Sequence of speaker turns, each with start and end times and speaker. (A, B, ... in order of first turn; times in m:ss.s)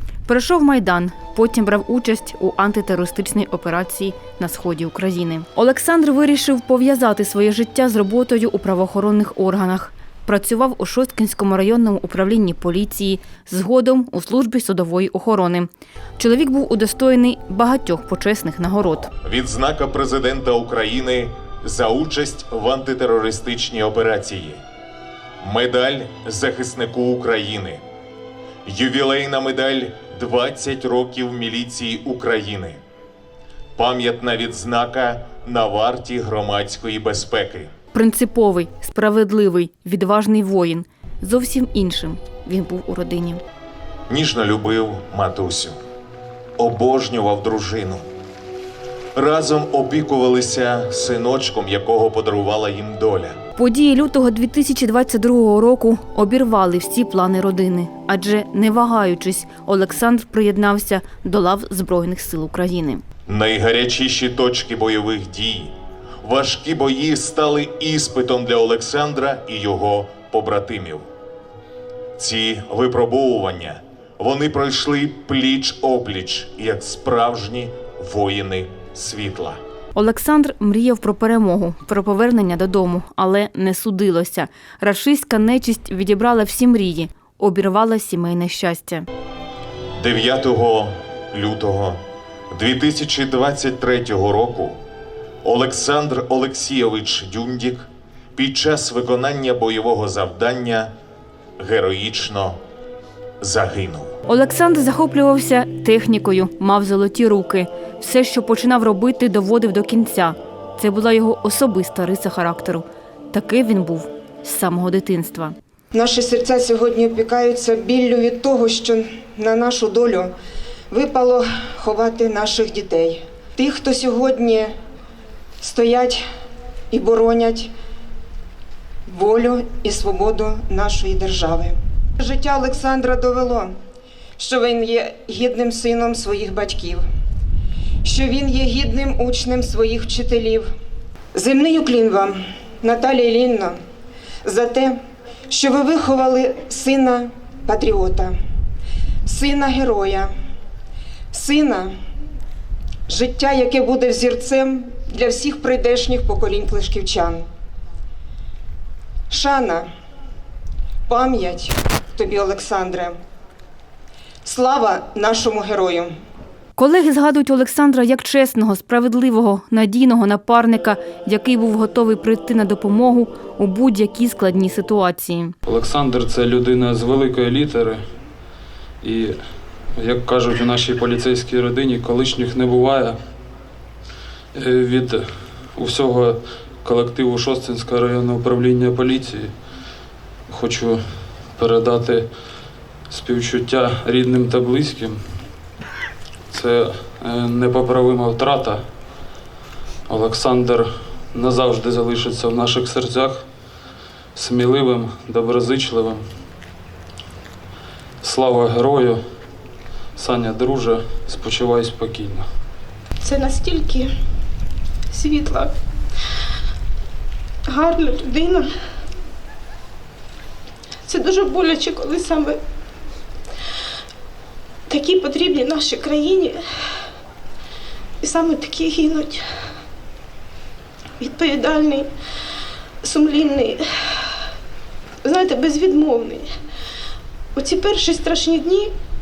0:00.3-0:19.1 A
0:19.2-0:24.6 B
0:25.4-0:27.8 B
0:28.7-0:32.8 B
0:33.8-0:37.7 B
0:37.9-0:43.4 A
0:44.1-0:45.8 B
0:46.6-0:48.1 B
0:49.2-0:53.4 B
0:53.6-1:03.0 A
1:03.3-1:11.1 B
1:12.2-1:19.6 B
1:20.0-1:29.1 A
1:30.0-1:32.0 B
1:32.5-1:34.8 B
1:35.4-1:40.9 B
1:41.6-1:42.6 B
1:43.4-1:44.1 B
1:44.3-1:55.6 A
1:55.9-2:00.3 C
2:00.9-2:04.7 C
2:05.6-2:06.2 C
2:06.9-2:07.7 C
2:09.1-2:13.7 C
2:14.4-2:17.0 C
2:18.0-2:20.7 C
2:21.3-2:23.8 C
2:24.4-2:25.0 C
2:25.5-2:28.4 C
2:29.2-2:30.3 C
2:31.3-2:31.9 C
2:33.1-2:37.5 C
2:39.3-2:39.9 C
2:41.1-2:43.2 C
2:44.4-2:46.1 C
2:46.8-2:55.6 A
2:55.6-2:58.0 D
2:59.0-2:59.4 D
2:59.9-3:03.2 D
3:04.5-3:09.6 D
3:10.5-3:12.3 D
3:13.1-3:15.4 D
3:16.5-3:18.8 D
3:20.1-3:23.5 D
3:24.4-3:26.2 D
3:28.2-3:29.2 D
3:30.2-3:32.5 D
3:33.2-3:34.1 E
3:35.1-3:35.7 E
3:37.7-3:38.7 E
3:41.1-3:42.6 E
3:44.9-3:46.6 E
3:48.2-3:49.5 E
3:51.2-3:52.1 E
3:53.0-3:54.4 E
3:55.2-3:56.5 E
3:57.6-3:58.9 E